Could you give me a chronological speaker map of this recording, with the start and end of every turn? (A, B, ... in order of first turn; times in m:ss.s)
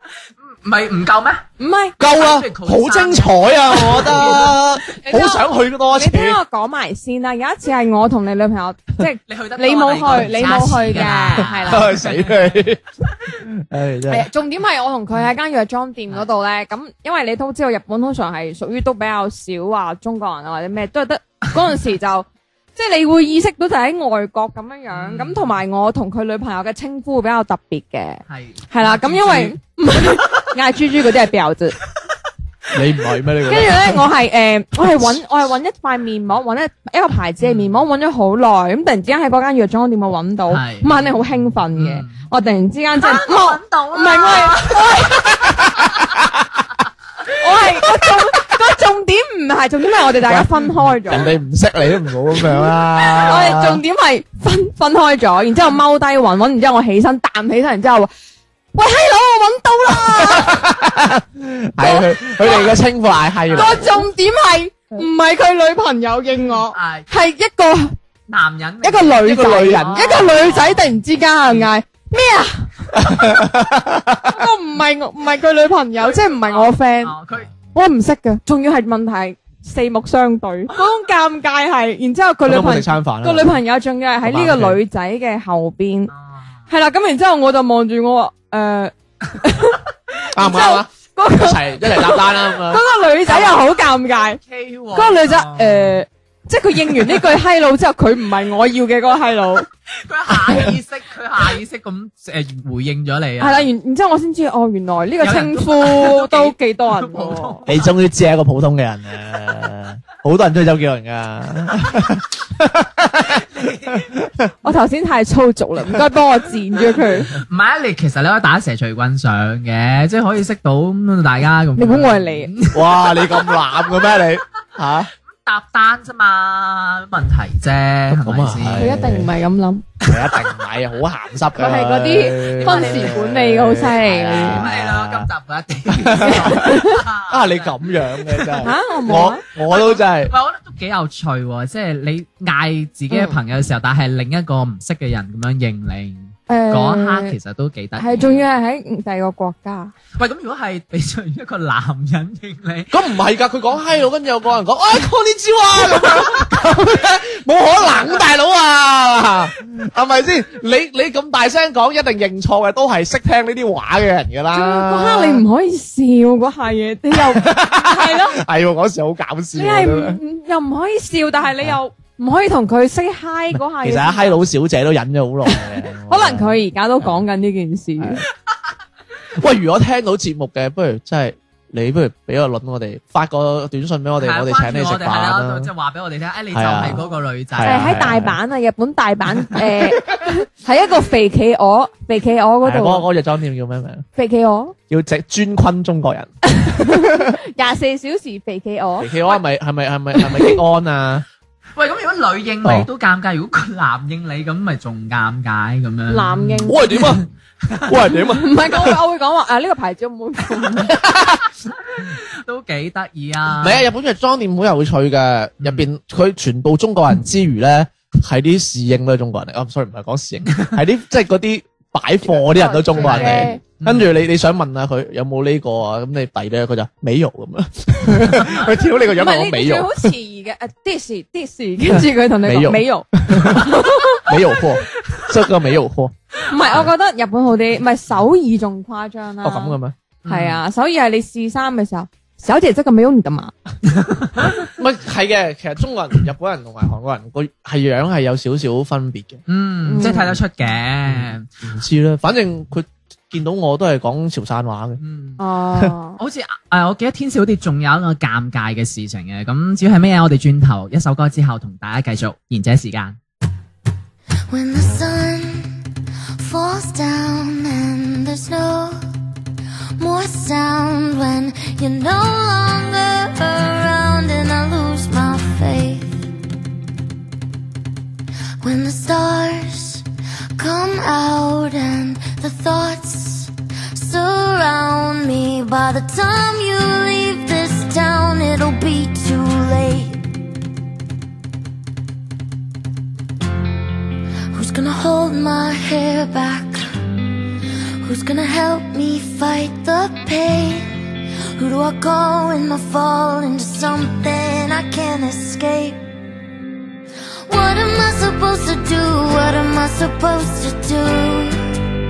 0:00.5-0:01.4 A
0:01.6-0:02.0 B
0:02.0-0:06.4 C
0:02.0-0:04.4 A
0:04.0-0:04.4 B
0:05.0-0:12.0 B
0:09.3-0:12.7 A
0:11.4-0:12.8 C
0:13.4-0:14.3 C
0:14.1-0:31.8 B
0:24.9-0:25.5 A
0:28.3-0:29.6 A
0:32.7-0:34.0 C
0:33.5-0:45.4 B
0:37.4-0:37.8 A
0:40.5-0:41.1 A
0:41.7-0:42.2 A
0:43.0-0:46.1 A
0:45.5-0:46.6 C
0:47.3-0:51.3 B
0:50.2-0:53.8 C
0:52.4-0:58.1 B
0:58.7-1:00.7 B
0:59.9-1:03.9 C
1:01.8-1:02.7 B
1:03.5-1:08.0 B
1:06.7-1:07.1 A
1:08.3-1:10.9 A
1:08.8-1:12.7 B
1:09.2-1:10.5 C
1:11.4-1:11.7 A
1:12.9-1:14.4 C
1:14.3-1:17.1 B
1:16.0-1:17.5 A
1:17.7-1:26.1 B
1:22.4-1:23.6 C
1:24.2-1:24.8 C
1:26.1-1:26.4 A
1:26.7-1:34.4 B
1:30.3-1:33.6 C
1:33.3-1:36.0 A
1:34.9-1:39.7 B
1:40.0-1:43.7 A
1:43.4-1:47.6 B
1:45.2-1:47.8 A
1:47.6-1:54.5 C
1:53.5-1:54.1 A
1:54.6-1:57.3 B
1:57.3-2:03.6 A
2:01.8-2:02.5 B
2:02.7-2:05.1 C
2:05.3-2:08.9 A
2:08.1-2:09.3 C
2:08.8-2:09.8 B
2:10.0-2:15.3 C
2:11.5-2:14.6 B
2:12.6-2:13.2 A
2:14.3-2:18.6 A
2:15.9-2:20.3 C
2:16.2-2:17.0 B
2:18.6-2:19.4 B
2:19.5-2:28.4 A
2:23.1-2:23.4 B
2:26.5-2:27.4 B
2:28.0-2:29.9 B
2:30.2-2:33.0 A
2:32.9-2:45.4 C
2:36.1-2:36.5 A
2:44.5-2:48.4 B
2:47.1-2:50.2 C
2:49.5-2:54.4 B
2:53.5-2:57.2 C
2:56.1-2:58.2 B
2:58.0-2:58.2 C
2:59.4-3:05.7 C
3:04.2-3:08.0 A
3:06.5-3:08.4 C
3:07.6-3:13.1 B
3:12.6-3:14.0 C
3:14.2-3:14.7 B
3:14.9-3:17.3 C
3:16.5-3:19.4 B
3:19.0-3:21.2 C
3:20.1-3:20.6 B
3:21.8-3:27.8 A
3:26.1-3:26.9 B
3:26.7-3:27.3 C
3:27.8-3:29.0 C
3:28.1-3:31.0 B
3:30.9-3:31.4 C
3:31.9-3:33.8 A
3:33.6-3:50.1 C
3:35.6-3:35.9 A
3:42.3-3:43.6 B
3:43.0-3:44.1 A
3:49.1-3:54.3 B
3:51.9-3:56.9 C
3:56.5-4:03.5 B
3:59.4-4:00.0 C
4:00.2-4:00.6 A
4:03.9-4:04.7 A
4:04.7-4:09.4 C
4:09.5-4:11.5 A
4:09.9-4:10.4 B
4:11.1-4:15.0 C
4:15.0-4:15.4 A
4:15.4-4:16.2 B
4:16.2-4:23.2 A
4:24.5-4:25.7 D
4:26.4-4:29.0 D
4:30.0-4:36.2 D
4:38.6-4:40.0 D
4:40.6-4:50.2 D
4:54.5-4:56.8 D
4:58.0-5:00.9 D
5:01.6-5:06.0 D
5:07.5-5:11.6 D